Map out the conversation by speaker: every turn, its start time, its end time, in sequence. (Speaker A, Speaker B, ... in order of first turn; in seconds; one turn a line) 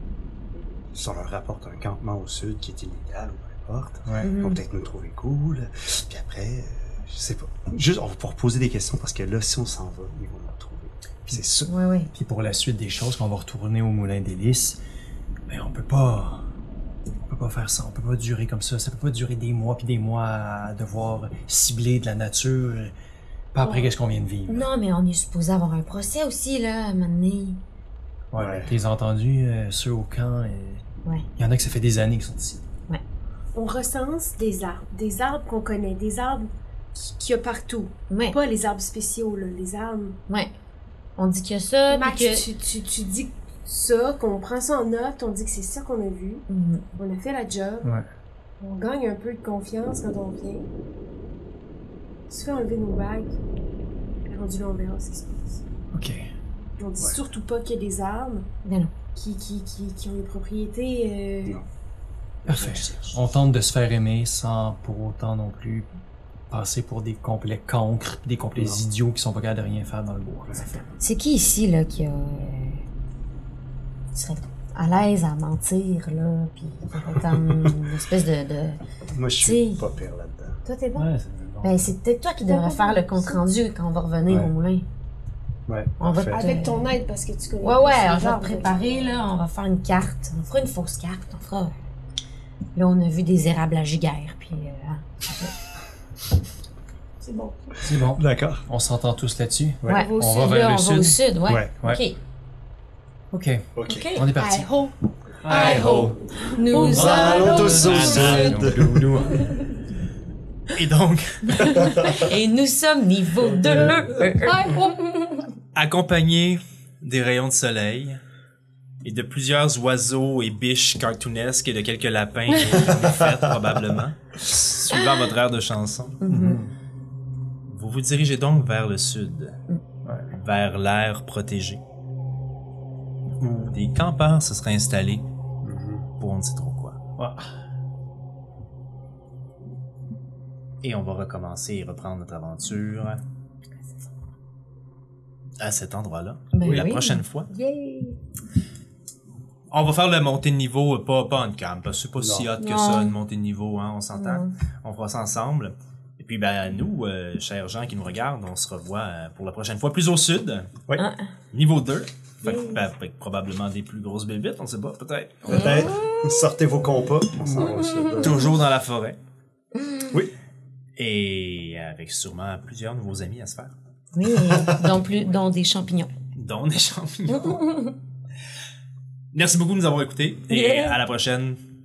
Speaker A: 0.9-11.7
Speaker B: 4.2-4.6
Speaker C: 11.3-14.8
Speaker B: 11.7-12.1
Speaker C: 15.5-16.5
Speaker C: 17.3-22.9
Speaker C: 23.5-24.7
Speaker B: 23.6-23.9
Speaker B: 24.5-27.6
Speaker C: 28.3-30.8
Speaker A: 28.3-28.8
Speaker C: 31.4-32.6
Speaker D: 33.5-40.2
Speaker B: 38.1-38.4
Speaker B: 41.2-42.5
Speaker D: 41.9-47.9
Speaker B: 46.5-46.8
Speaker D: 48.6-50.7
Speaker D: 52.3-53.4
Speaker D: 54.3-55.6
Speaker C: 55.9-56.3
Speaker D: 56.8-58.5
Speaker B: 58.6-58.9
Speaker D: 59.1-61.6
Speaker A: 62.4-63.2
Speaker C: 62.5-65.9
Speaker C: 66.5-70.9
Speaker B: 71.0-72.8
Speaker B: 74.1-78.8
Speaker A: 77.1-77.8
Speaker A: 79.1-80.6
Speaker B: 79.4-79.9
Speaker B: 80.6-81.1
Speaker C: 80.9-81.9
Speaker B: 81.6-84.8
Speaker D: 82.4-83.4
Speaker A: 85.7-86.4
Speaker B: 86.0-86.9
Speaker D: 86.3-89.2
Speaker B: 87.6-91.7
Speaker B: 92.8-95.5
Speaker D: 97.2-97.8
Speaker C: 97.8-101.2
Speaker A: 98.1-98.6
Speaker B: 99.9-102.2
Speaker D: 99.9-100.5
Speaker C: 103.3-104.7
Speaker A: 103.8-104.2
Speaker B: 103.9-104.3
Speaker D: 104.3-108.7
Speaker C: 105.4-106.2
Speaker B: 105.5-108.1
Speaker C: 106.8-109.5
Speaker A: 106.9-109.4
Speaker E: 110.7-111.9
Speaker B: 111.5-115.5
Speaker A: 111.8-112.2
Speaker A: 113.5-114.1
Speaker D: 114.4-115.0
Speaker E: 115.7-118.2
Speaker E: 119.0-126.2
Speaker B: 126.2-126.6
Speaker C: 126.3-126.7
Speaker E: 127.7-129.6
Speaker C: 130.0-130.3
Speaker E: 130.3-131.8
Speaker E: 133.5-135.2
Speaker A: 135.7-136.0
Speaker E: 136.2-137.0
Speaker C: 137.2-137.5
Speaker E: 140.8-143.2
Speaker E: 145.6-147.5
Speaker B: 146.5-148.2
Speaker C: 146.7-146.9
Speaker E: 149.7-160.7
Speaker A: 152.2-152.5
Speaker B: 152.6-153.1
Speaker B: 154.1-154.5
Speaker B: 160.9-161.3
Speaker E: 161.5-165.6
Speaker B: 162.4-162.8
Speaker B: 165.4-166.5
Speaker A: 165.5-168.4
Speaker B: 167.7-168.2
Speaker E: 168.2-169.2
Speaker B: 169.8-170.1
Speaker E: 170.9-173.7
Speaker B: 174.1-176.1
Speaker A: 174.4-174.8
Speaker E: 176.3-177.6
Speaker B: 177.3-177.9
Speaker E: 179.3-181.6
Speaker B: 180.5-181.0